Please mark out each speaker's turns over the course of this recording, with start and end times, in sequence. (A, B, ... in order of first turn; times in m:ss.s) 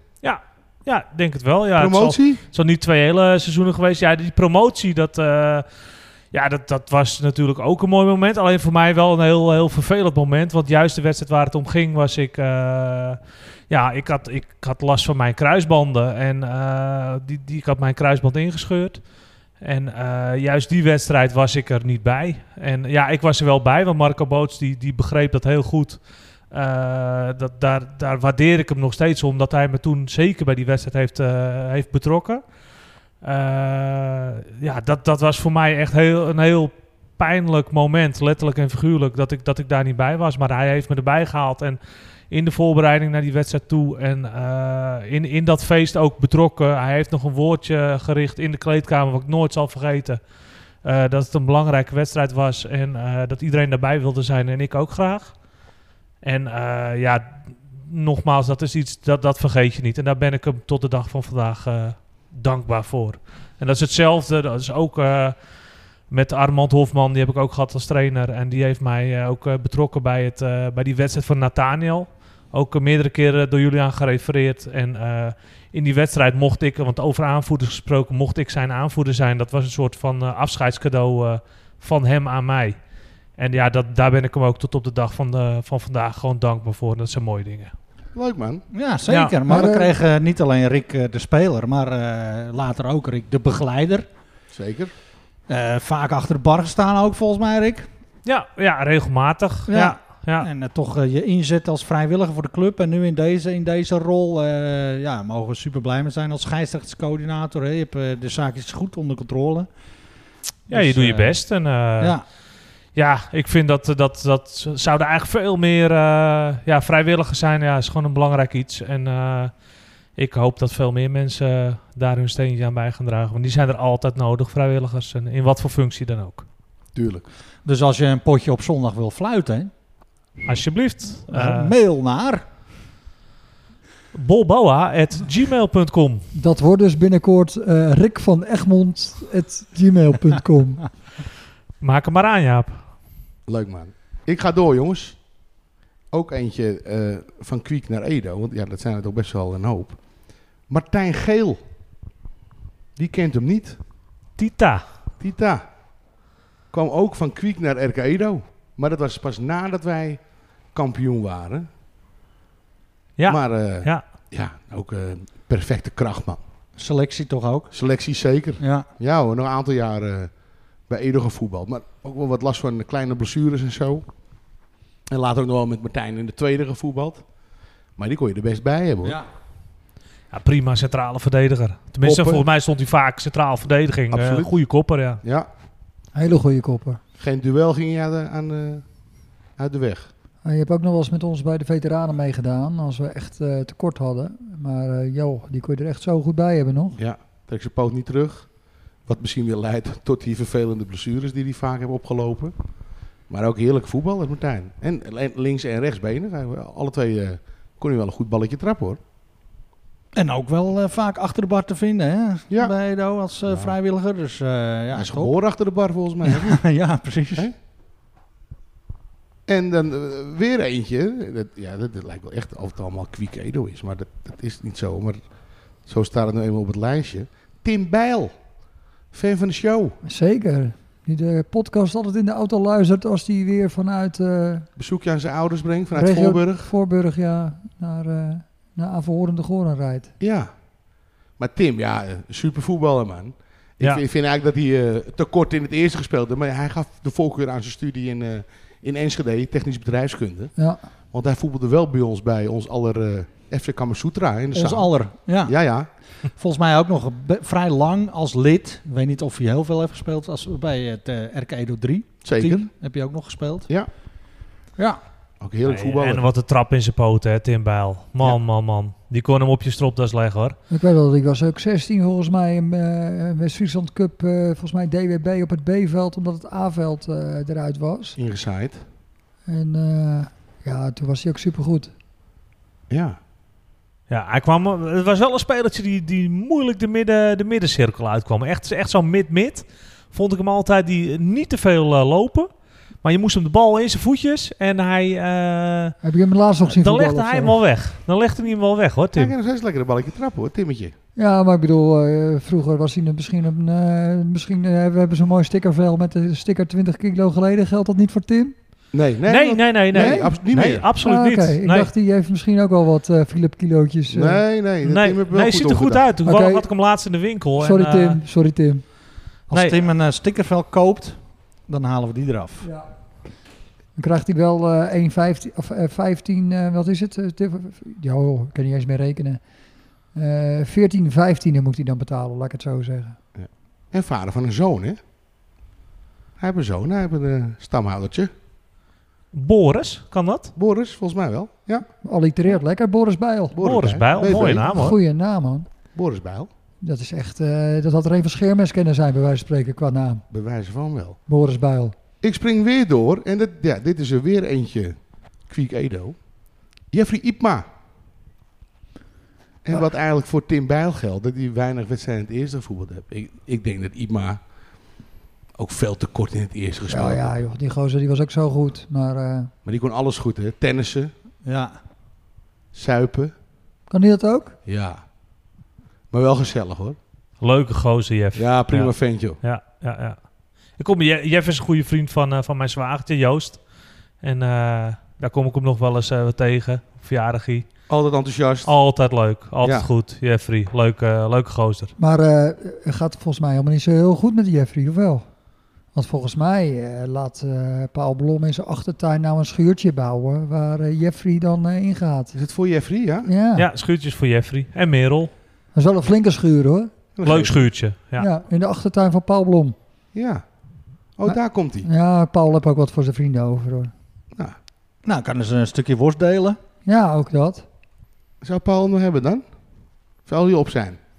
0:00.2-1:22.8 A
0:01.8-0:02.4 B
1:23.3-1:27.7 A
1:28.1-1:28.6 B
1:28.7-1:34.0 C
1:29.1-1:29.4 A
1:29.4-1:29.9 D
1:34.5-1:34.9 B
1:35.5-1:37.9 C
1:38.2-1:40.5 A
1:39.7-1:49.9 C
1:50.7-1:52.3 C
1:50.7-2:06.5 A
2:06.9-2:07.3 B
2:07.6-2:09.7 C
2:10.4-2:11.7 A
2:11.3-2:12.4 C
2:14.1-2:16.3 A
2:16.3-2:21.1 D
2:21.8-2:22.9 A
2:23.5-2:25.5 B
2:26.1-2:31.6 B
2:33.0-2:33.8 B
2:34.4-2:35.0 A
2:35.2-2:36.2 B
2:36.7-2:41.7 B
2:43.2-2:44.0 A
2:43.3-2:46.4 B
2:46.8-2:47.7 C
2:47.7-2:59.2 B
2:48.6-2:48.9 C
2:59.0-2:59.3 C
3:00.3-3:05.2 A
3:02.0-3:02.4 B
3:04.1-3:04.6 B
3:05.2-3:05.5 B
3:06.1-3:07.0 D
3:07.2-3:10.1 B
3:10.4-3:17.0 D
3:17.0-3:29.0 B
3:30.1-3:35.4 C
3:32.5-3:33.7 B
3:34.9-3:37.6 B
3:36.2-3:37.5 C
3:39.5-3:50.0 B
3:50.0-3:54.7 D
3:54.8-3:56.7 B
3:55.9-4:00.1 D
4:00.2-4:15.9 B
4:10.6-4:10.8 D
4:14.5-4:24.2 C
4:22.2-4:22.7 B
4:24.8-4:25.0 C
4:25.4-4:26.3 B
4:25.6-4:30.6 A
4:30.7-4:38.2 D
4:38.2-4:38.8 B
4:39.4-4:41.9 D
4:42.9-4:43.2 B
4:44.1-4:56.0 A
4:56.0-4:57.6 D
4:56.6-4:59.3 A
4:59.1-5:01.0 B
5:01.2-5:08.6 D
5:08.9-5:10.9 B
5:09.3-5:11.9 A
5:09.9-5:10.5 D
5:11.0-5:14.4 D
5:14.1-5:16.1 B
5:14.8-5:18.2 A
5:16.2-5:16.7 D
5:17.6-5:18.8 D
5:19.5-5:22.7 C
5:19.5-5:19.8 A
5:22.6-5:22.9 D
5:24.0-5:29.4 D
5:30.1-5:33.2 D
5:33.3-5:35.0 B
5:36.4-5:38.3 B
5:39.3-5:40.5 A
5:40.6-5:41.9 B
5:42.0-5:43.6 D
5:43.5-5:44.7 B
5:43.6-5:45.0 A
5:44.2-5:45.7 D
5:45.9-5:46.5 B
5:46.8-5:50.2 D
5:50.3-5:51.2 B
5:51.3-5:52.0 D
5:52.2-5:57.6 B
5:59.6-6:07.3 B
6:06.9-6:09.5 D
6:09.6-6:11.1 B
6:11.4-6:11.8 C
6:12.7-6:13.3 B
6:13.9-6:14.6 D
6:14.6-6:15.1 B
6:16.1-6:17.0 B
6:17.4-6:27.7 A
6:18.3-6:19.4 B
6:27.9-6:28.8 B
6:28.6-6:32.0 A
6:29.6-6:29.9 B
6:32.0-6:35.3 D
6:35.9-6:42.4 D
6:42.3-6:43.3 B
6:43.3-6:43.7 D
6:43.6-6:45.3 A
6:45.7-6:47.0 D
6:47.2-6:47.7 B
6:47.2-6:48.3 A
6:48.2-6:49.8 D
6:50.1-6:51.9 B
6:51.2-6:53.9 D
6:55.0-6:56.6 C
6:56.8-6:57.6 D
6:58.4-7:01.0 B